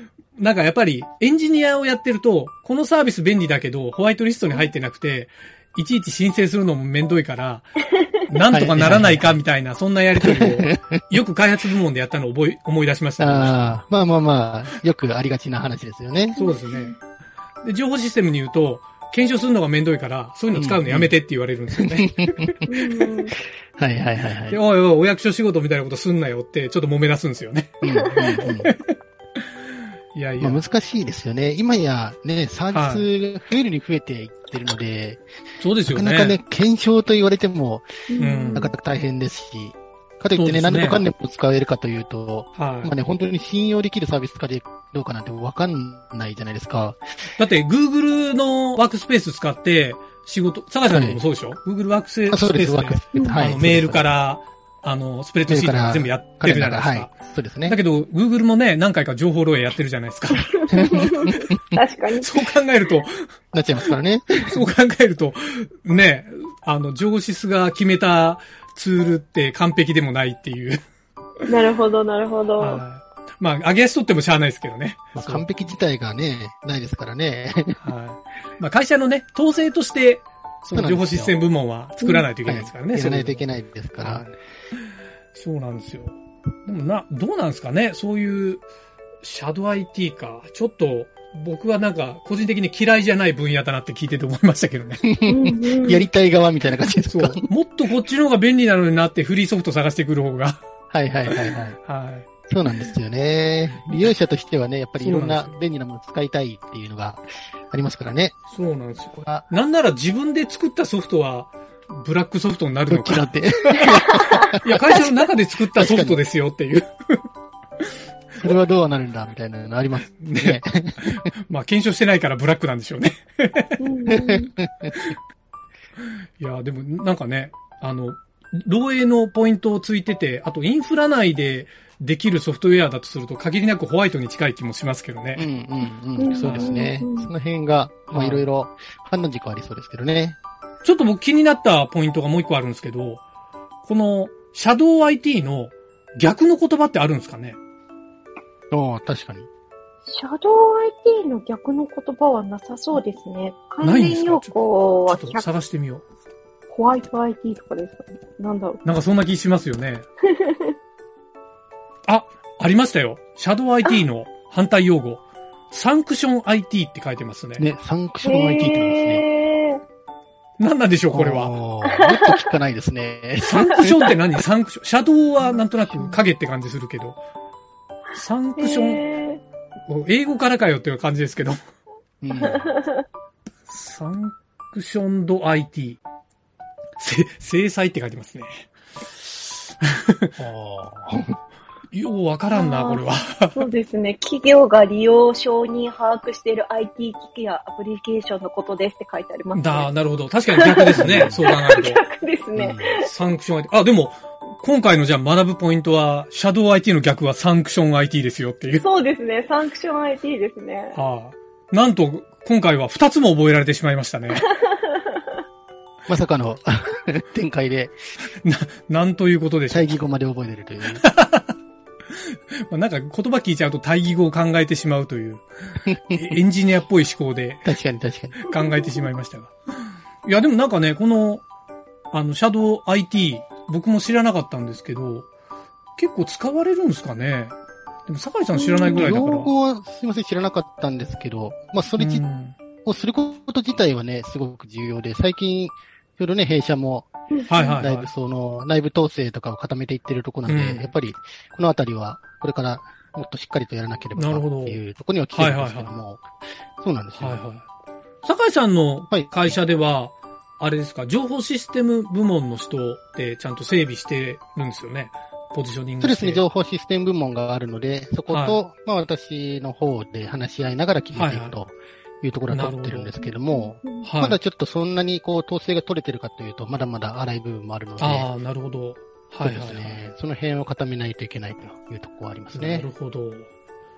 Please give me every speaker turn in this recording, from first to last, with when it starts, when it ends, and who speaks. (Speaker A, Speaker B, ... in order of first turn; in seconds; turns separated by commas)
Speaker A: 0.4-13.8, Speaker B: 8.5-9.4, Speaker B: 10.2-11.0, Speaker B: 13.2-16.4, Speaker C: 16.4-16.9, Speaker A: 16.4-17.0, Speaker A: 17.6-22.6, Speaker B: 20.6-21.1, Speaker B: 21.8-22.5, Speaker C: 22.7-23.4, Speaker B: 23.8-24.6, Speaker A: 24.5-29.4, Speaker B: 27.8-28.7, Speaker A: 30.1-30.6, Speaker B: 30.4-35.2, Speaker A: 32.7-33.1, Speaker A: 35.6-36.4, Speaker B: 35.9-38.0, Speaker C: 38.1-38.7, Speaker A: 38.2-38.7, Speaker B: 38.5-47.0, Speaker A: 40.4-41.0, Speaker A: 42.6-43.0, Speaker A: 47.4-57.1, Speaker B: 50.9-51.2, Speaker B: 52.3-54.1, Speaker B: 55.5-57.8, Speaker A: 57.7-60.5, Speaker C: 60.6-62.3, Speaker B: 60.7-61.3, Speaker A: 62.2-63.2, Speaker B: 63.5-64.6, Speaker A: 64.5-70.8, Speaker C: 71.5-72.8, Speaker A: 72.6-75.5, Speaker B: 75.2-77.8, Speaker A: 77.8-83.5, Speaker B: 80.7-81.4, Speaker C: 82.0-82.3, Speaker B: 82.5-84.3, Speaker A: 84.0-84.3, Speaker A: 85.3-88.6, Speaker A: 89.2-95.0, Speaker B: 95.0-97.4, Speaker C: 95.3-96.1, Speaker A: 97.1-100.6, Speaker B: 100.9-101.8, Speaker A: 101.3-102.3, Speaker B: 102.5-108.4, Speaker A: 105.0-105.5, Speaker A: 108.5-113.9, Speaker B: 109.1-109.5, Speaker B: 112.9-115.0, Speaker C: 113.8-114.3, Speaker A: 114.6-117.2, Speaker B: 115.8-116.2, Speaker B: 118.4-121.3, Speaker A: 120.1-123.8, Speaker C: 123.8-124.5, Speaker B: 124.1-125.0, Speaker A: 126.4-135.5, Speaker B: 135.4-140.4, Speaker C: 136.2-137.3, Speaker A: 136.4-136.7, Speaker A: 138.1-138.4, Speaker A: 140.8-143.2, Speaker A: 143.8-147.6, Speaker B: 148.7-149.5, Speaker C: 150.1-155.4, Speaker A: 153.8-156.1, Speaker C: 156.7-158.8, Speaker A: 158.8-160.1, Speaker C: 160.4-160.7, Speaker A: 162.1-167.7, Speaker B: 167.6-169.2, Speaker C: 168.2-169.8, Speaker A: 170.6-171.5, Speaker B: 171.1-174.1, Speaker C: 172.0-172.4, Speaker A: 173.4-177.2, Speaker B: 175.8-176.2, Speaker A: 178.2-179.1, Speaker C: 178.6-179.4, Speaker A: 179.9-181.6, Speaker B: 182.2-182.7, Speaker C: 182.4-183.0, Speaker A: 183.7-186.0, Speaker A: 187.0-190.4, Speaker B: 190.4-191.4, Speaker A: 191.9-193.7, Speaker C: 192.5-199.9, Speaker A: 199.5-202.0, Speaker C: 200.6-203.0, Speaker B: 200.9-201.4, Speaker B: 202.6-203.0, Speaker A: 203.0-208.8, Speaker C: 208.8-211.0, Speaker A: 210.9-214.5, Speaker B: 216.1-218.0, Speaker A: 218.4-220.0, Speaker B: 219.7-221.0, Speaker A: 221.0-221.5, Speaker A: 222.6-227.7, Speaker B: 225.9-226.2, Speaker B: 227.7-228.5, Speaker A: 228.4-229.6, Speaker A: 230.2-231.4, Speaker A: 232.1-235.3, Speaker A: 236.0-237.6, Speaker A: 238.1-239.5, Speaker C: 238.6-239.1, Speaker B: 238.9-242.2, Speaker A: 242.0-242.6, Speaker B: 242.8-247.1, Speaker C: 247.3-247.8, Speaker A: 247.5-248.1, Speaker B: 247.8-256.2, Speaker A: 250.5-250.9, Speaker A: 254.2-254.8, Speaker A: 255.3-256.0, Speaker B: 256.8-257.4, Speaker A: 257.2-257.6, Speaker A: 258.2-266.4, Speaker B: 259.1-259.6, Speaker B: 266.0-278.3, Speaker A: 268.3-268.6, Speaker A: 271.1-271.6, Speaker A: 272.5-273.2, Speaker C: 273.2-274.1, Speaker A: 274.0-274.4, Speaker A: 278.0-280.0, Speaker B: 279.4-282.9, Speaker A: 282.5-283.5